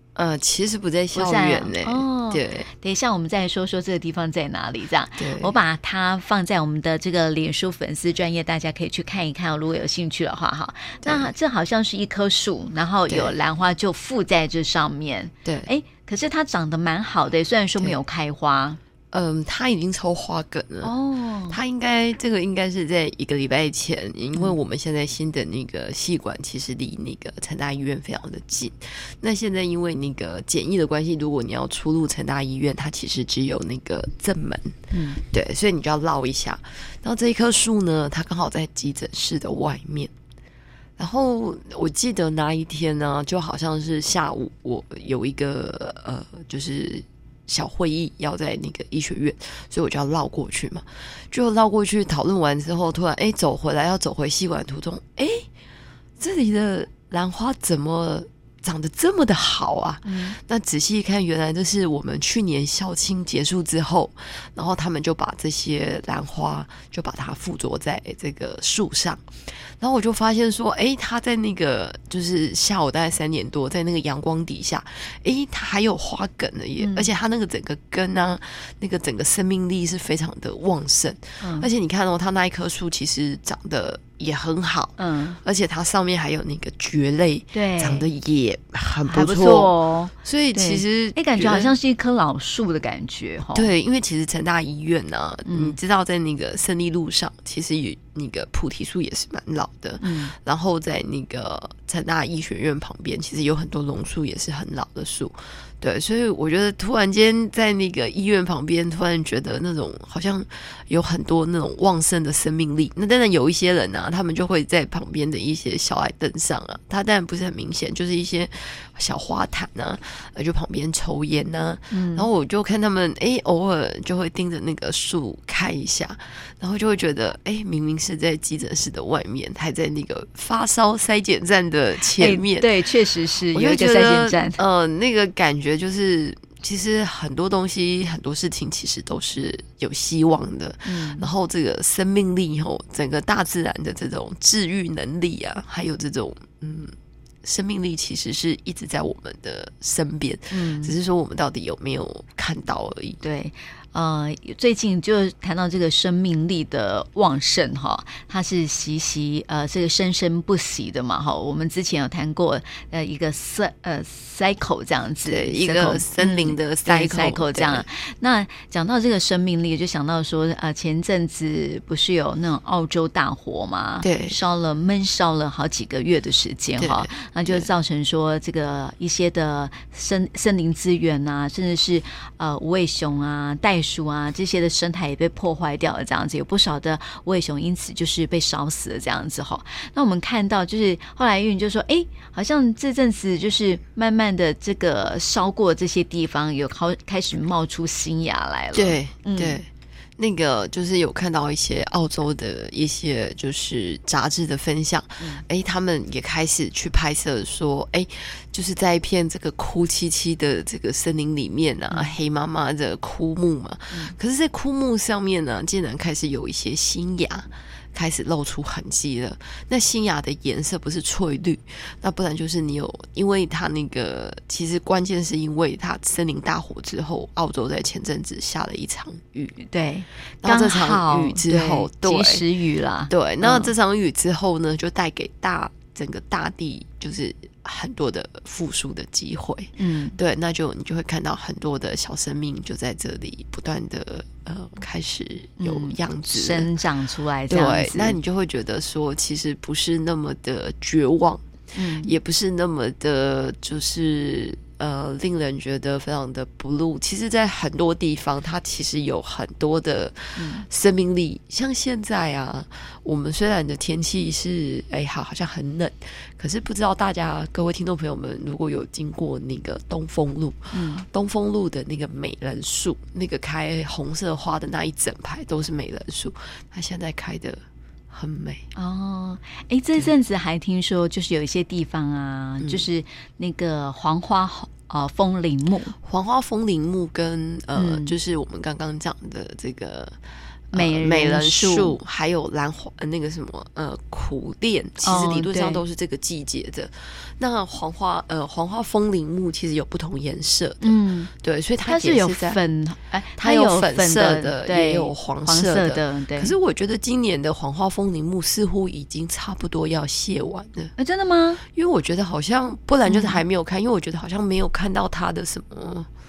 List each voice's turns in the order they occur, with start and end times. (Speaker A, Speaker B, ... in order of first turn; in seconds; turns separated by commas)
Speaker A: 0.2-2.7, Speaker B: 1.1-18.8, Speaker A: 5.2-5.5, Speaker A: 11.0-11.3, Speaker A: 13.1-13.3, Speaker A: 19.1-20.9, Speaker B: 20.8-21.6, Speaker A: 21.5-40.1, Speaker B: 34.9-35.2, Speaker A: 41.0-55.5, Speaker A: 56.2-69.2, Speaker B: 60.0-60.4, Speaker A: 69.8-91.7, Speaker B: 76.8-77.1, Speaker B: 81.4-81.7, Speaker B: 85.0-85.4, Speaker B: 87.5-88.1, Speaker B: 89.1-93.7, Speaker A: 93.5-132.7, Speaker B: 95.5-95.8, Speaker B: 100.0-100.3, Speaker B: 121.9-122.3, Speaker B: 132.2-134.6, Speaker A: 133.5-146.9, Speaker B: 140.8-141.3, Speaker A: 147.4-153.2, Speaker B: 150.5-150.9, Speaker B: 153.2-199.6, Speaker A: 165.3-167.9, Speaker A: 174.0-174.4, Speaker A: 176.8-177.7, Speaker A: 198.7-199.7, Speaker A: 200.2-229.6, Speaker B: 229.6-233.7, Speaker A: 230.4-232.4, Speaker A: 233.1-246.7, Speaker B: 239.8-240.2, Speaker B: 245.6-248.2, Speaker A: 247.5-251.4, Speaker B: 251.8-252.1, Speaker A: 252.0-277.6, Speaker B: 260.4-260.6, Speaker B: 270.7-271.1, Speaker A: 278.1-278.6, Speaker B: 278.8-285.9, Speaker A: 282.6-282.9, Speaker A: 286.0-290.2, Speaker B: 287.8-288.1, Speaker A: 290.7-302.6, Speaker B: 290.7-292.0, Speaker B: 295.0-295.8, Speaker B: 300.8-301.3, Speaker B: 301.9-306.5, Speaker A: 303.4-310.9, Speaker B: 311.0-311.6, Speaker A: 311.7-316.1, Speaker B: 313.1-313.4